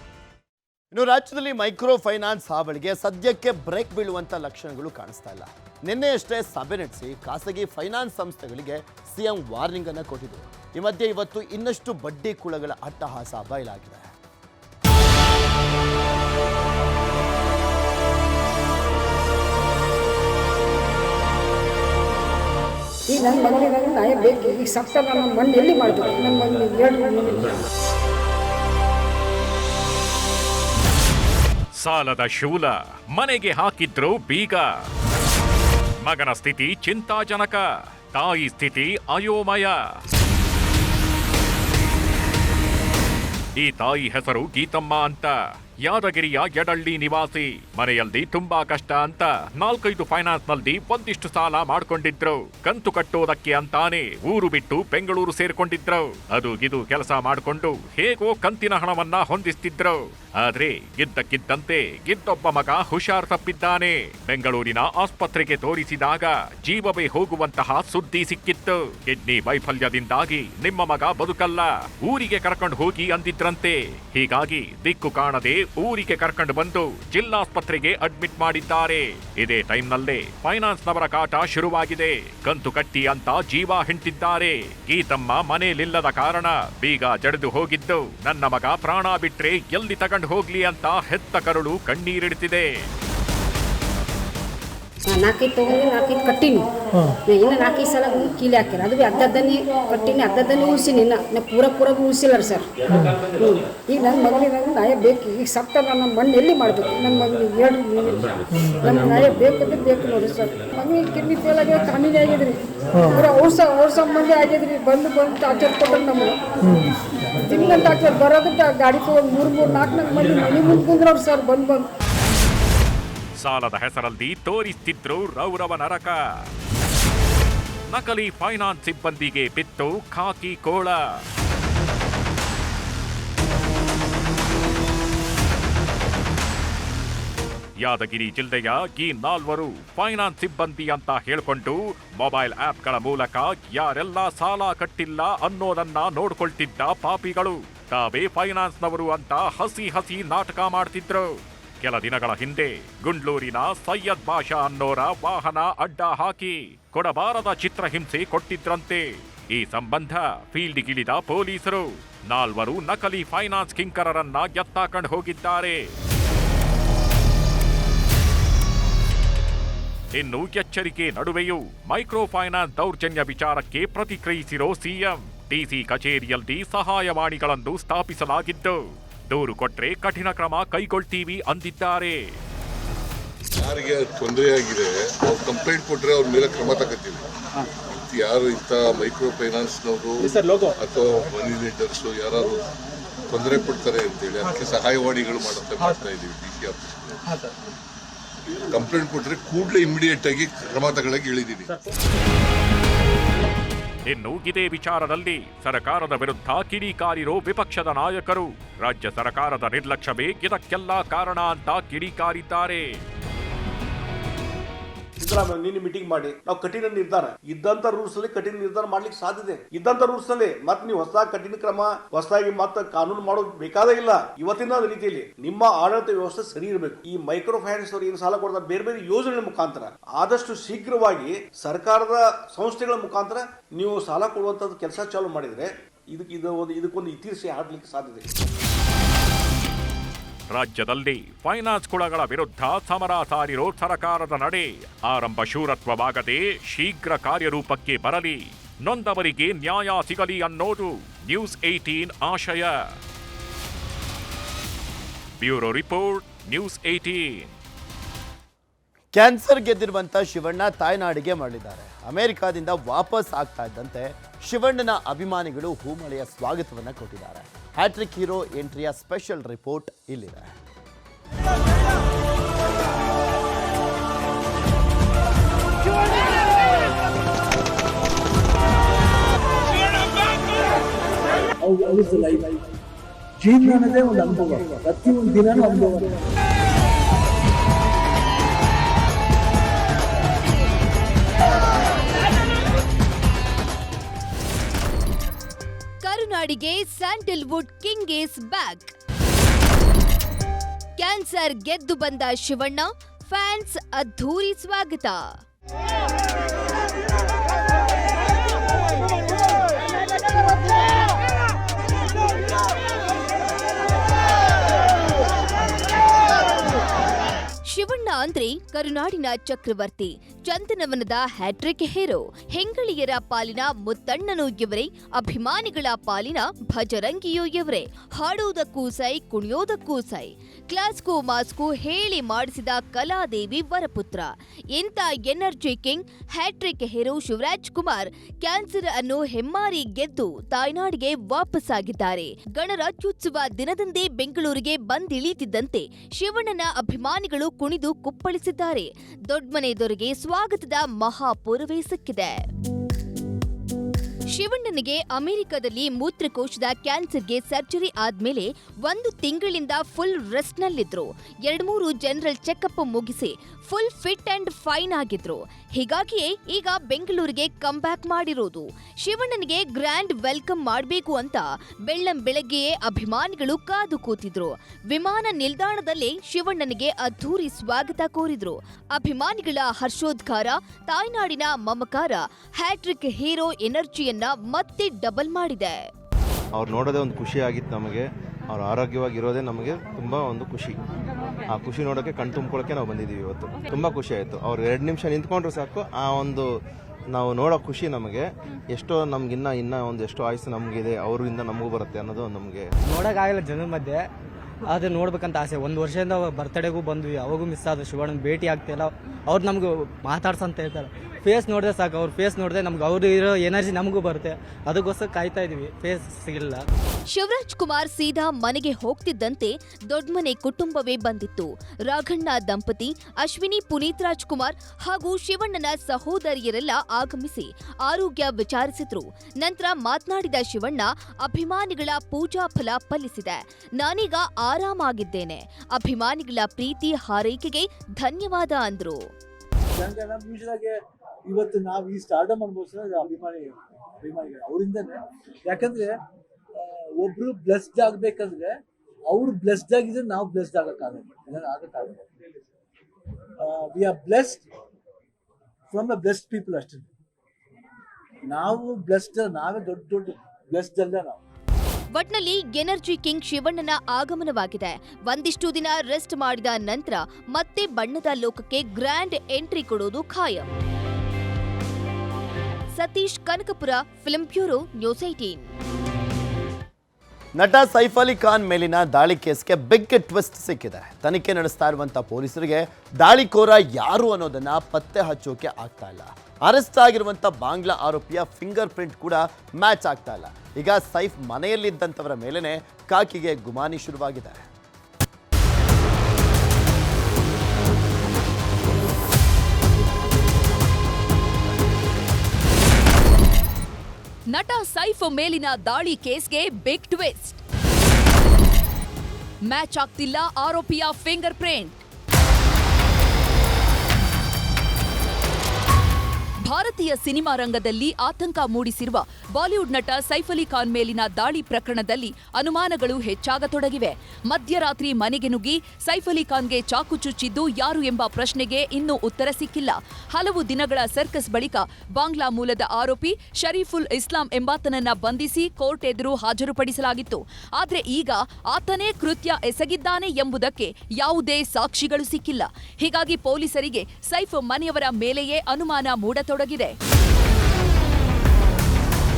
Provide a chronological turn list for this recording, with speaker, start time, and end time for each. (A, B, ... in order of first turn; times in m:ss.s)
0:00.9-0:14.1 A
0:23.1-0:27.6 B
0:31.8-0:34.9 C
0:36.0-0:40.0 C
0:43.6-1:32.9 C
1:35.1-1:36.6 B
1:37.3-1:42.7 B
1:43.3-1:48.3 B
1:48.8-1:56.4 B
1:57.5-2:01.8 B
2:03.4-2:06.4 C
2:07.9-2:11.2 C
2:17.8-2:46.0 C
2:50.1-3:02.4 C
3:03.6-3:07.2 D
3:07.9-3:12.6 D
3:10.2-3:10.8 E
3:13.3-3:17.2 D
3:17.2-3:17.5 E
3:18.7-3:21.7 D
3:24.1-3:33.0 C
3:35.3-3:55.6 F
3:56.2-3:58.2 F
4:00.5-4:12.9 C
4:15.4-4:17.5 C
4:19.1-4:30.5 A
4:41.6-4:42.6 G
4:43.4-4:46.1 G
4:56.0-4:58.9 H
5:01.0-5:05.4 H
5:17.7-5:52.5 H
5:54.3-6:25.9 H
6:26.5-6:30.8 I
6:31.5-6:42.7 I
6:42.8-6:44.1 E
6:44.6-6:56.6 E
6:57.1-7:19.1 H
7:19.8-7:25.9 G
7:26.6-7:28.5 G
7:29.1-7:32.0 G
7:33.4-7:34.5 G
7:35.7-7:36.9 G
7:38.3-7:41.2 G
7:41.9-7:50.5 H
7:52.8-7:55.5 H
7:57.4-8:14.5 A
8:24.3-8:27.4 J
8:29.4-8:31.8 J
8:36.4-9:06.8 J